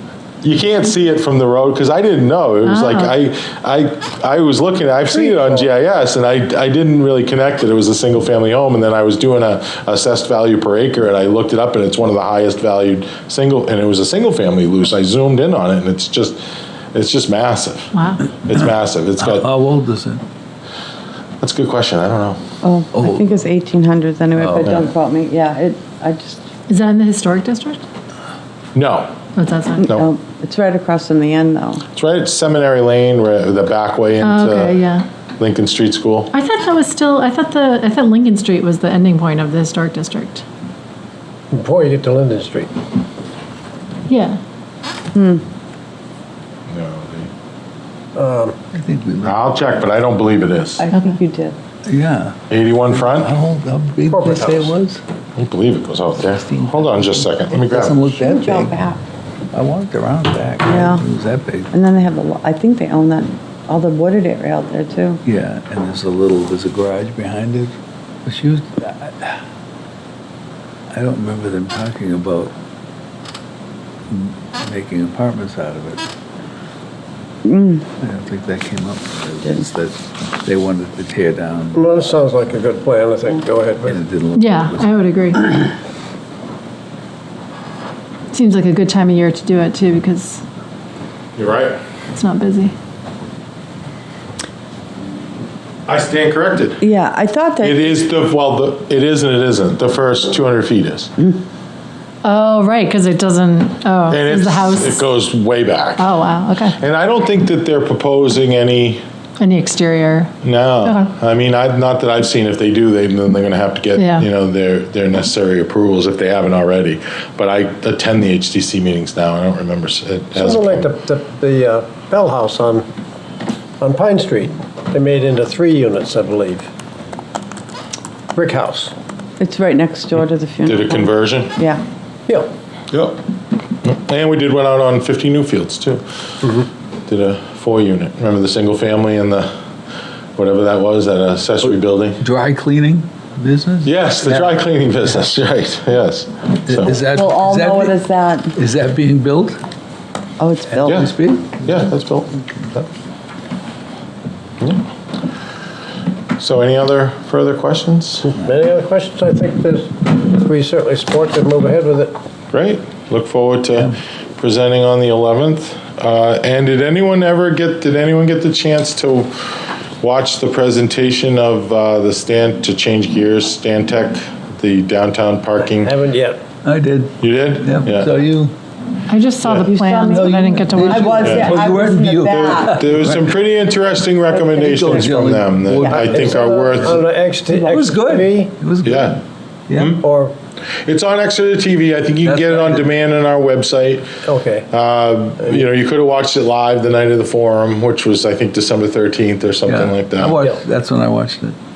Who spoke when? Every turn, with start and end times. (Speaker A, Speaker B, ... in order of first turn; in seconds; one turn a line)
Speaker A: 0.4-16.4
Speaker B: 2.6-3.1
Speaker C: 5.1-5.7
Speaker A: 16.9-19.5
Speaker B: 17.9-18.2
Speaker D: 18.5-20.2
Speaker A: 21.4-22.4
Speaker E: 22.6-26.5
Speaker D: 22.9-23.4
Speaker D: 24.4-24.9
Speaker B: 26.7-27.8
Speaker A: 28.7-29.1
Speaker B: 29.4-29.9
Speaker E: 29.8-31.8
Speaker A: 31.9-34.8
Speaker B: 34.2-35.0
Speaker A: 35.4-36.3
Speaker B: 36.3-40.4
Speaker C: 41.5-42.7
Speaker B: 44.1-44.4
Speaker E: 45.1-45.4
Speaker A: 46.7-47.3
Speaker C: 48.1-48.5
Speaker D: 48.7-49.4
Speaker A: 49.2-50.9
Speaker E: 50.8-51.6
Speaker B: 50.9-51.2
Speaker D: 51.9-52.4
Speaker A: 52.5-53.3
Speaker D: 52.9-55.0
Speaker C: 54.1-54.8
Speaker A: 55.4-58.0
Speaker D: 56.3-58.8
Speaker E: 58.1-59.0
Speaker D: 59.5-61.7
Speaker E: 60.6-61.0
Speaker E: 61.7-65.2
Speaker D: 65.2-67.7
Speaker D: 68.2-69.4
Speaker D: 70.9-72.5
Speaker D: 74.1-76.0
Speaker E: 77.4-77.8
Speaker D: 78.0-81.9
Speaker C: 81.7-84.0
Speaker D: 83.8-85.1
Speaker B: 84.3-85.7
Speaker B: 88.3-90.4
Speaker A: 91.3-91.8
Speaker B: 92.1-92.7
Speaker A: 95.9-96.8
Speaker E: 96.8-97.9
Speaker A: 97.6-101.1
Speaker B: 102.2-105.1
Speaker A: 104.1-106.1
Speaker B: 106.0-106.8
Speaker A: 106.7-109.0
Speaker B: 109.4-111.1
Speaker A: 110.4-120.9
Speaker B: 114.0-114.3
Speaker C: 120.3-122.8
Speaker C: 123.8-126.7
Speaker C: 128.3-128.9
Speaker E: 129.4-131.8
Speaker A: 130.7-131.6
Speaker A: 132.9-133.2
Speaker A: 133.8-136.0
Speaker A: 137.1-139.5
Speaker A: 140.3-142.2
Speaker D: 142.2-144.7
Speaker A: 143.8-147.0
Speaker D: 146.7-148.0
Speaker E: 146.9-148.5
Speaker D: 148.5-149.6
Speaker E: 150.4-151.1
Speaker D: 150.7-151.7
Speaker A: 150.8-152.9
Speaker A: 156.4-158.4
Speaker C: 158.3-162.1
Speaker A: 162.5-176.0
Speaker C: 175.8-176.4
Speaker D: 176.6-178.5
Speaker A: 177.2-178.2
Speaker B: 179.1-181.5
Speaker A: 179.4-179.7
Speaker E: 179.6-182.8
Speaker D: 180.1-183.4
Speaker A: 181.2-181.6
Speaker A: 182.2-187.0
Speaker E: 184.3-185.2
Speaker D: 184.6-187.0
Speaker E: 185.8-186.3
Speaker C: 185.8-188.5
Speaker E: 187.5-187.8
Speaker D: 187.6-189.2
Speaker A: 188.8-189.2
Speaker D: 189.7-190.0
Speaker A: 189.8-190.0
Speaker C: 190.0-190.3
Speaker A: 190.8-194.1
Speaker D: 192.2-192.9
Speaker C: 194.2-194.7
Speaker A: 194.7-200.4
Speaker D: 199.7-201.6